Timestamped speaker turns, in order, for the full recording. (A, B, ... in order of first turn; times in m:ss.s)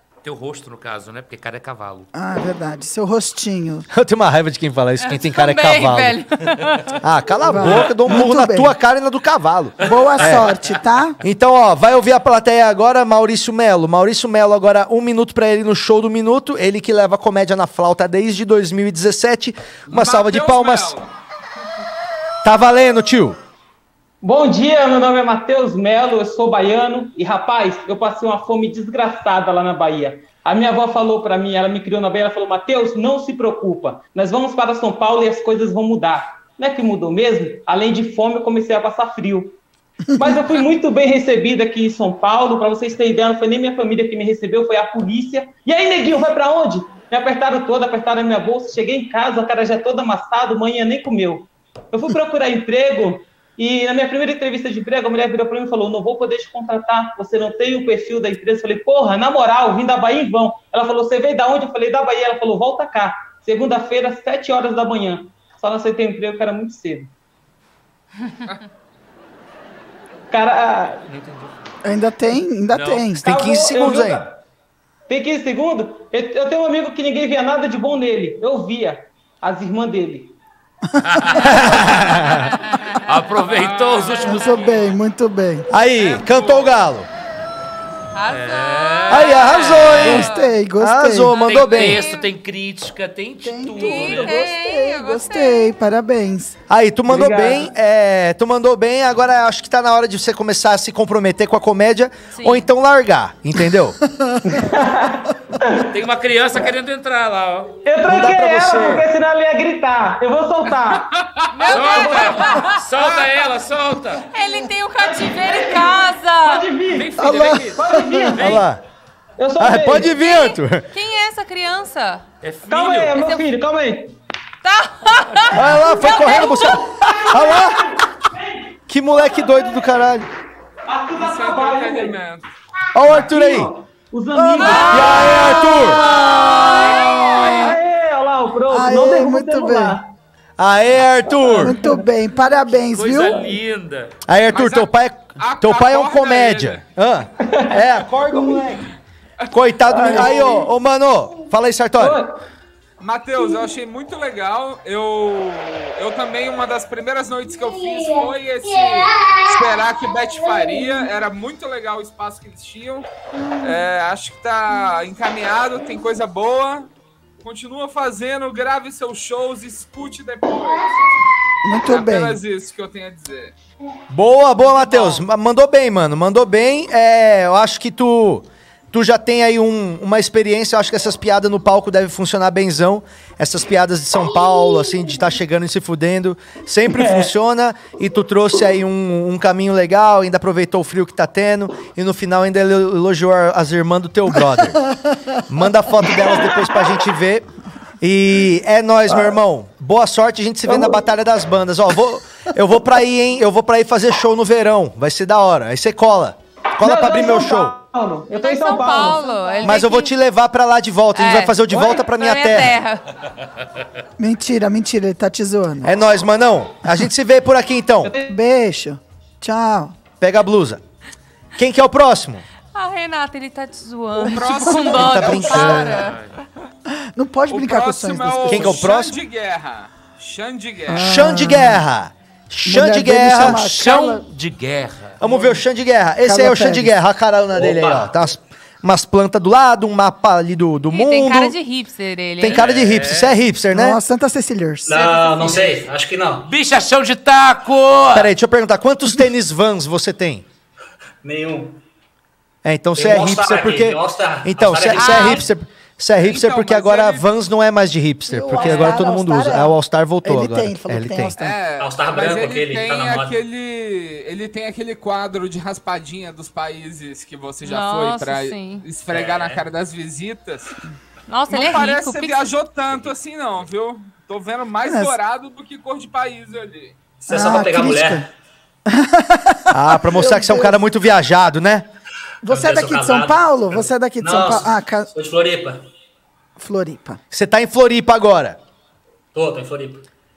0:00.2-0:02.1 A
0:02.1-0:03.9 B
0:03.9-0:06.2 C
0:05.0-0:07.0 D
0:07.0-0:10.5 C
0:07.5-0:08.7 B
0:09.8-0:11.2 B
0:11.2-0:21.0 C
0:19.9-0:21.1 E
0:22.4-0:23.4 C
0:24.2-0:39.6 F
0:40.1-1:07.1 F
1:10.3-1:11.0 F
1:11.1-1:11.5 A
1:11.8-1:13.2 B
1:12.7-1:13.1 A
1:13.2-1:14.2 C
1:13.2-1:14.3 F
1:15.1-1:20.4 F
1:21.0-1:22.2 A
1:21.4-1:22.5 C
1:23.0-1:24.8 A
1:23.5-1:24.2 E
1:24.2-1:25.7 B
1:25.7-1:27.1 C
1:26.0-1:26.8 E
1:28.1-1:30.6 D
1:28.3-1:30.3 A
1:29.1-1:32.0 C
1:30.0-1:31.3 B
1:31.3-1:32.3 D
1:31.3-1:34.3 A
1:33.4-1:36.6 B
1:33.8-1:35.7 D
1:36.7-1:44.0 C
1:37.1-1:37.7 F
1:42.3-1:42.7 D
1:44.2-1:44.5 B
1:44.5-1:45.9 F
1:45.8-1:47.7 A
1:47.8-1:51.1 F
1:48.0-1:49.1 C
1:51.5-1:52.8 D
1:51.7-1:54.3 A
1:54.3-1:56.6 D
1:54.9-1:57.2 F
1:56.9-1:58.6 A
1:57.2-1:58.3 B
1:57.7-1:58.6 F
1:58.4-1:58.8 C
1:59.4-2:00.1 F
1:59.6-2:00.9 C
2:00.1-2:02.2 D
2:02.4-2:03.2 A
2:02.6-2:04.1 F
2:03.1-2:03.4 D
2:04.6-2:05.5 D
2:05.5-2:07.9 C
2:06.0-2:06.8 D
2:07.0-2:07.7 F
2:08.9-2:10.2 C
2:10.9-2:12.2 F
2:11.2-2:12.5 E
2:12.9-2:13.7 C
2:13.1-2:16.7 F
2:14.4-2:14.7 B
2:14.6-2:15.1 D
2:14.7-2:16.0 C
2:16.5-2:17.6 D
2:17.0-2:17.3 E
2:17.5-2:20.1 F
2:18.7-2:20.0 B
2:20.6-2:21.8 C
2:21.3-2:22.0 F
2:21.6-2:23.5 B
2:22.8-2:24.1 A
2:24.2-2:28.8 C
2:24.5-2:26.8 E
2:27.5-2:27.8 F
2:29.5-2:32.2 C
2:29.9-2:30.4 F
2:30.1-2:30.5 E
2:32.0-2:32.3 F
2:33.0-2:43.0 E
2:43.6-2:46.9 E
2:47.4-2:51.0 E
2:51.6-2:52.4 B
2:51.8-2:53.5 E
2:54.1-3:14.8 C
2:54.6-2:55.2 D
3:06.9-3:07.3 F
3:15.5-3:17.5 C
3:16.2-3:16.8 F
3:18.0-3:27.8 C
3:20.7-3:21.0 F
3:26.8-3:29.3 F
3:28.4-3:30.1 D
3:28.8-3:29.8 B
3:29.6-3:32.8 C
3:31.1-3:33.1 D
3:34.2-3:35.9 B
3:35.8-3:38.1 C
3:38.0-3:38.3 F
3:38.2-3:39.9 B
3:40.2-3:40.8 C
3:41.6-3:42.4 C
3:42.7-3:46.2 D
3:44.2-3:45.8 E
3:44.6-3:45.3 B
3:44.9-3:46.0 C
3:45.9-3:46.3 A
3:46.9-3:48.8 B
3:47.5-3:51.1 E
3:48.5-3:49.2 C
3:50.9-3:51.8 B
3:51.0-3:53.7 C
3:52.6-3:54.2 B
3:53.4-3:55.2 A
3:55.2-4:01.5 C
3:55.2-3:55.6 B
3:56.2-3:56.9 B
3:57.5-3:58.2 G
4:00.9-4:02.6 D
4:02.4-4:04.0 C
4:02.4-4:03.4 A
4:03.7-4:04.9 B
4:04.8-4:06.5 G
4:04.9-4:05.8 D
4:06.4-4:08.3 A
4:08.1-4:10.4 C
4:11.2-4:11.8 G
4:12.6-4:21.3 C
4:12.9-4:15.5 G
4:14.9-4:15.4 D
4:16.2-4:17.2 E
4:18.3-4:21.6 B
4:21.4-4:30.8 E
4:21.8-4:23.4 G
4:27.6-4:28.8 D
4:29.1-4:29.6 G
4:31.3-4:32.5 D
4:31.5-4:36.9 E
4:34.8-4:35.1 B
4:37.2-4:38.3 G
4:37.3-4:38.3 B
4:38.9-4:40.8 B
4:39.7-4:41.9 C
4:42.4-4:45.1 B
4:42.4-4:45.8 G
4:46.6-4:47.2 B
4:47.3-4:48.6 C
4:49.3-4:50.0 G